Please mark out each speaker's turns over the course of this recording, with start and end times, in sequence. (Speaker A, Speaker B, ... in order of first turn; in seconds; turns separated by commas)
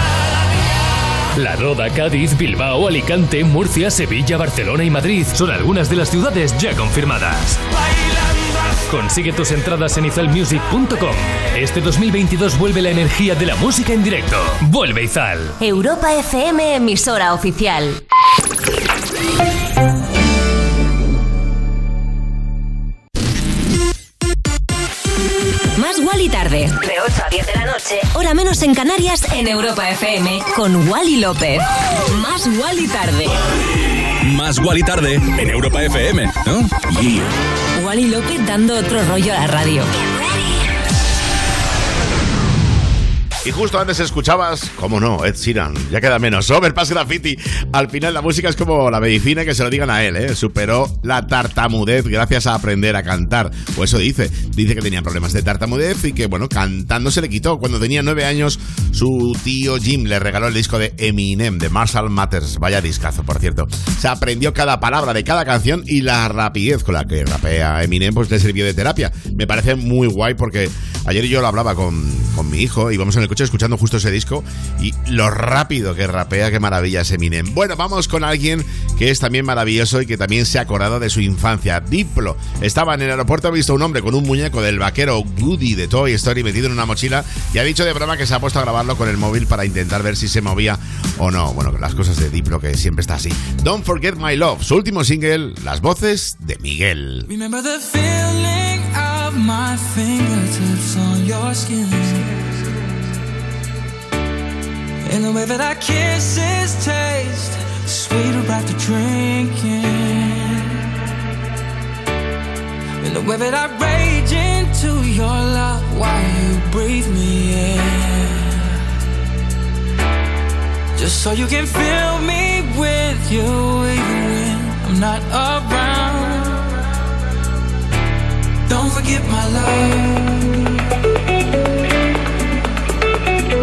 Speaker A: 1.4-7.6, Speaker A: 8.8-15.6, Speaker B: 15.6-18.0, Speaker B: 25.8-33.4, Speaker C: 34.2-37.2, Speaker B: 37.8-39.9, Speaker D: 43.4-97.3, Speaker E: 97.3-102.5, Speaker E: 105.0-110.8, Speaker E: 113.0-118.8, Speaker E: 121.0-126.7, Speaker E: 128.7-130.6